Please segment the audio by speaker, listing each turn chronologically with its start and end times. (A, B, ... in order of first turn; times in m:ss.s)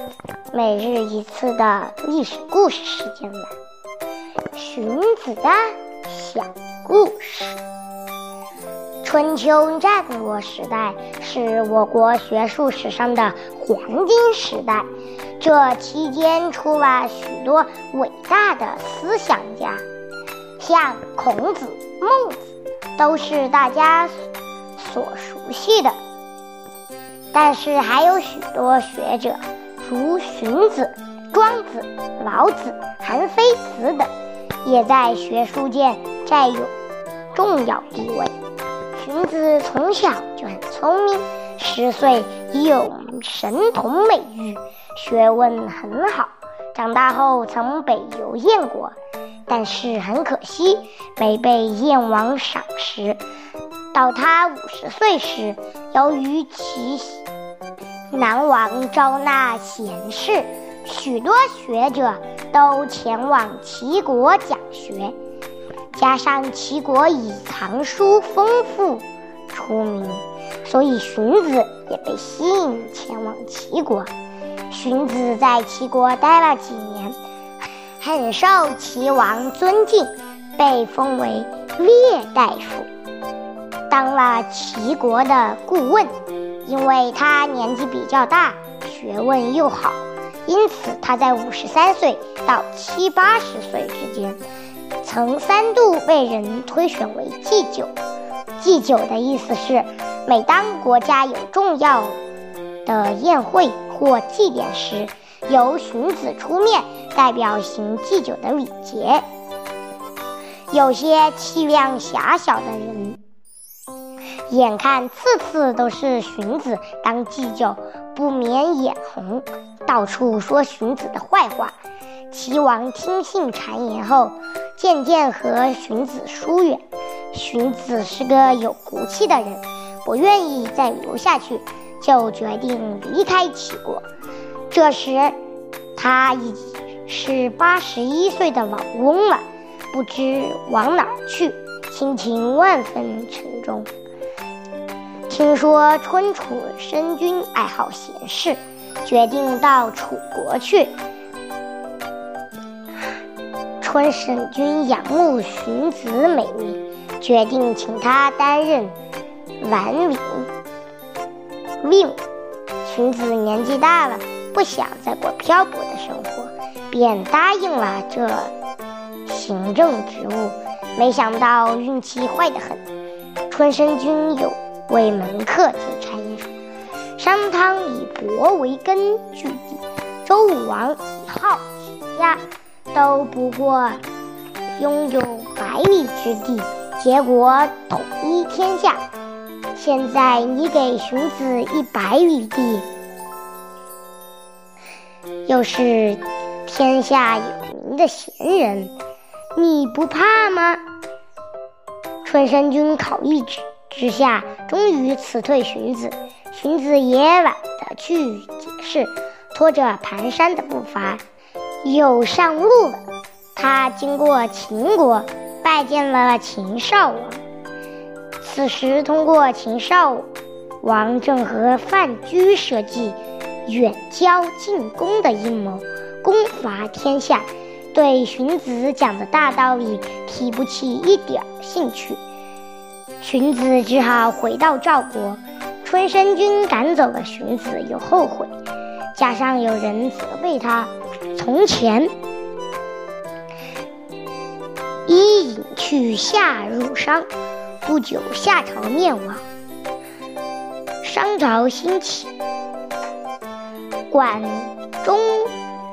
0:00.5-0:03.5 A
0:04.5-0:07.6 A
0:09.0-0:14.9 A
0:15.4-0:19.8 A
0:20.6-0:24.1 A
0:24.8-0:26.0 A
0:27.3-0:34.1 A
0:34.6-0:36.7 A
0:37.3-0:38.3 A
0:39.0-0:49.0 A
0:49.5-0:53.2 A
0:53.9-0:57.2 A
0:58.1-1:05.2 A
1:05.9-1:14.1 A
1:14.7-1:17.2 A
1:18.0-1:22.9 A
1:23.9-1:26.1 A
1:26.6-1:34.4 A
1:35.0-1:37.9 A
1:38.6-1:42.2 A
1:42.9-1:49.2 A
1:50.7-1:53.2 A
1:54.5-2:01.8 A
2:02.3-2:06.8 A
2:07.3-2:14.0 A
2:14.7-2:15.4 A
2:16.0-2:23.9 A
2:25.3-2:30.9 A
2:33.8-2:39.0 A
2:39.6-2:40.5 A
2:41.8-2:42.2 A
2:42.8-2:48.5 A
2:49.3-2:52.8 A
2:53.5-2:56.5 A
2:57.2-3:02.4 A
3:02.9-3:04.0 A
3:04.8-3:09.0 A
3:09.8-3:12.9 A
3:15.5-3:18.9 A
3:19.6-3:20.8 A
3:22.2-3:31.2 A
3:31.8-3:33.0 A
3:33.6-3:37.4 A
3:38.4-3:40.3 A
3:40.8-3:52.2 A
3:53.2-3:58.5 A
3:59.2-4:02.1 A
4:05.1-4:07.3 A
4:07.8-4:09.4 A
4:11.0-4:12.3 A
4:14.1-4:15.5 A